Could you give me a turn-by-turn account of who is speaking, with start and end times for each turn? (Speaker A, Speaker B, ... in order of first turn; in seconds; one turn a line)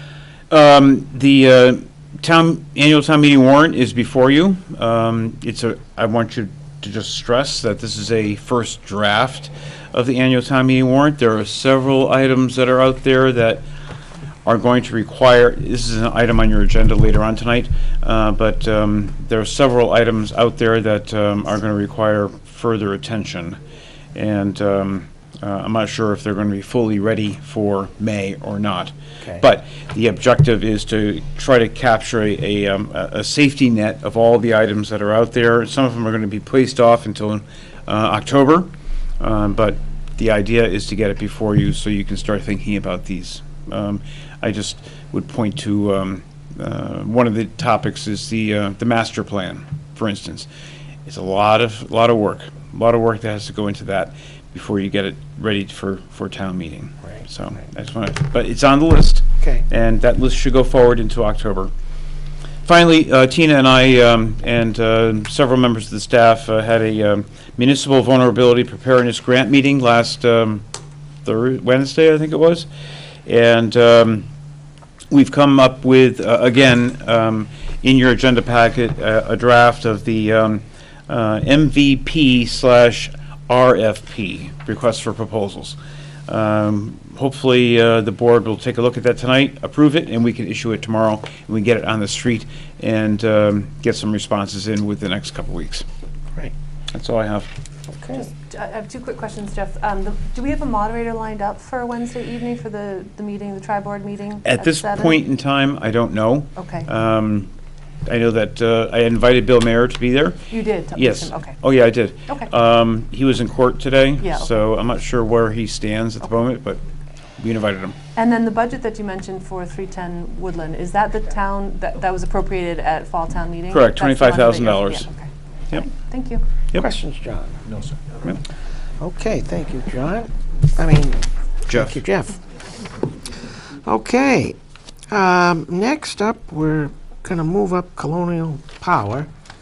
Speaker A: 0.5-13.7
Speaker A: 14.4-23.6
Speaker A: 24.1-38.7
Speaker A: 39.2-50.5
Speaker A: 51.1-61.7
Speaker A: 62.7-70.7
Speaker A: 71.2-72.7
Speaker A: 73.3-74.2
Speaker A: 75.1-85.8
Speaker A: 86.3-95.8
Speaker A: 96.9-97.5
Speaker B: 97.9-98.2
Speaker C: 98.1-105.2
Speaker A: 104.5-107.5
Speaker C: 106.6-106.9
Speaker A: 108.1-116.8
Speaker C: 110.5-111.6
Speaker C: 114.2-114.5
Speaker A: 117.4-118.0
Speaker C: 118.2-126.4
Speaker A: 123.7-125.1
Speaker B: 126.7-127.6
Speaker B: 129.0-132.4
Speaker A: 131.7-132.0
Speaker B: 133.8-134.6
Speaker B: 135.1-139.3